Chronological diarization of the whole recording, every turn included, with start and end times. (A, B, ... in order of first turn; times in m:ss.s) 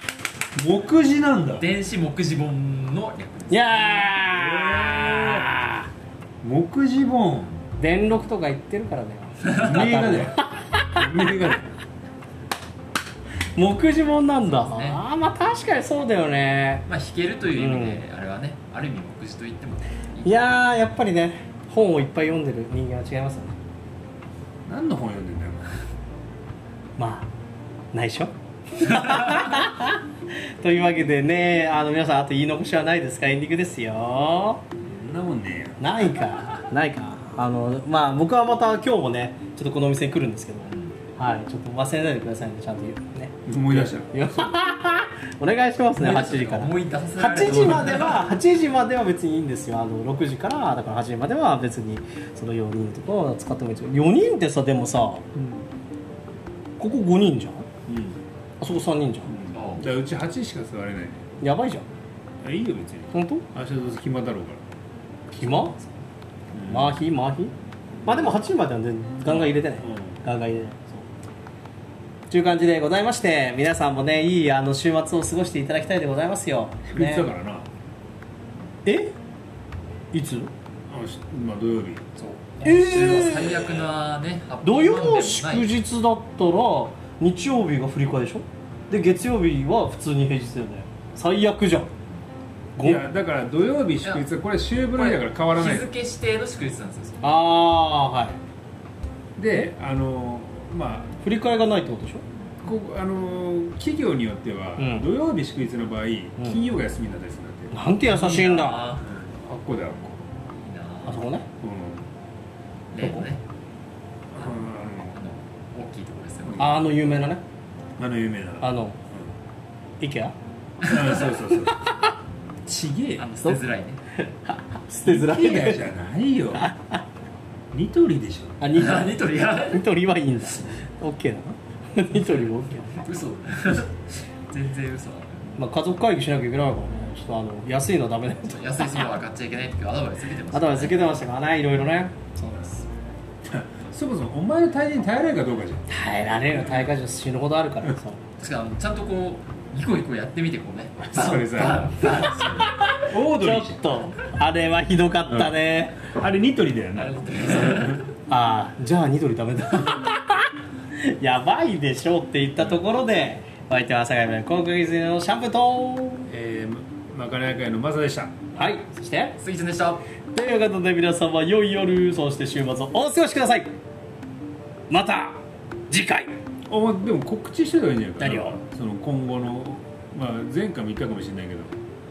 0:00.6-0:01.7 A
0:01.6-0:04.2 B
0:03.5-0:05.9 C
0:04.3-0:05.5 A
0:06.4-0:07.6 A
0:07.8-0:11.3 C
0:09.4-0:09.9 B
0:09.6-0:11.7 A
0:13.6-0:16.9 C
0:14.4-0:15.0 B
0:16.9-0:20.4 B
0:17.5-0:18.0 C
0:20.2-0:23.6 C
0:24.7-0:25.8 A
0:27.0-0:27.3 C
0:27.9-0:30.0 C
0:30.6-0:34.6 C
0:34.8-0:35.8 A
0:35.8-0:55.3 C
0:40.7-0:41.0 B
0:43.5-0:44.5 A
0:46.0-0:48.3 B
0:55.4-0:55.6 A
0:56.8-0:57.7 C
0:57.9-0:58.2 A
0:58.6-0:59.4 C
0:59.3-1:01.3 A
0:59.5-0:59.9 B
1:01.4-1:01.8 C
1:02.4-1:04.6 A
1:03.1-1:03.4 C
1:05.3-1:05.8 C
1:05.4-1:05.8 B
1:06.5-1:07.0 A
1:06.7-1:07.5 C
1:08.0-1:08.4 A
1:08.0-1:11.1 C
1:09.3-1:10.2 A
1:12.3-1:17.3 C
1:16.9-1:17.7 A
1:18.9-1:19.1 C
1:20.1-1:20.5 C
1:20.9-1:22.1 A
1:22.2-1:25.7 B
1:22.6-1:23.8 C
1:24.6-1:31.9 C
1:32.8-1:33.0 C
1:32.8-1:35.9 A
1:35.0-1:37.3 B
1:37.2-1:38.4 C
1:39.4-1:41.2 A
1:41.2-1:42.2 C
1:42.6-1:47.8 A
1:44.8-1:45.1 C
1:47.7-1:48.9 C
1:48.0-1:49.1 B
1:49.0-1:50.2 A
1:50.6-1:51.2 B
1:51.1-1:51.5 C
1:51.6-1:52.0 A
1:52.9-1:53.4 B
1:54.3-1:55.2 A
1:55.1-1:56.9 B
1:56.5-1:56.8 A
1:56.6-1:57.4 C
1:58.0-1:59.3 A
1:58.6-1:59.0 C
2:00.0-2:00.4 C
2:00.8-2:01.2 B
2:00.8-2:01.8 A
2:01.5-2:02.0 C
2:02.7-2:03.3 A
2:03.2-2:04.0 B
2:04.1-2:05.8 C
2:05.0-2:06.6 A
2:06.5-2:07.0 C
2:07.7-2:08.6 A
2:08.6-2:13.0 C
2:08.7-2:09.8 B
2:12.1-2:15.5 B
2:15.6-2:19.2 C
2:18.5-2:21.2 B
2:20.5-2:22.9 C
2:23.4-2:25.9 A
2:25.9-2:28.2 C
2:28.4-2:32.9 B
2:31.0-2:32.1 A
2:32.0-2:36.0 C
2:33.1-2:34.0 A
2:35.3-2:38.0 A
2:37.0-2:38.1 B
2:38.3-2:46.3 C
2:46.3-2:48.4 A
2:48.6-2:49.4 C
2:49.4-2:50.0 B
2:50.4-2:53.7 C
2:54.9-2:56.3 C
2:56.7-3:01.8 A
2:58.2-2:58.6 C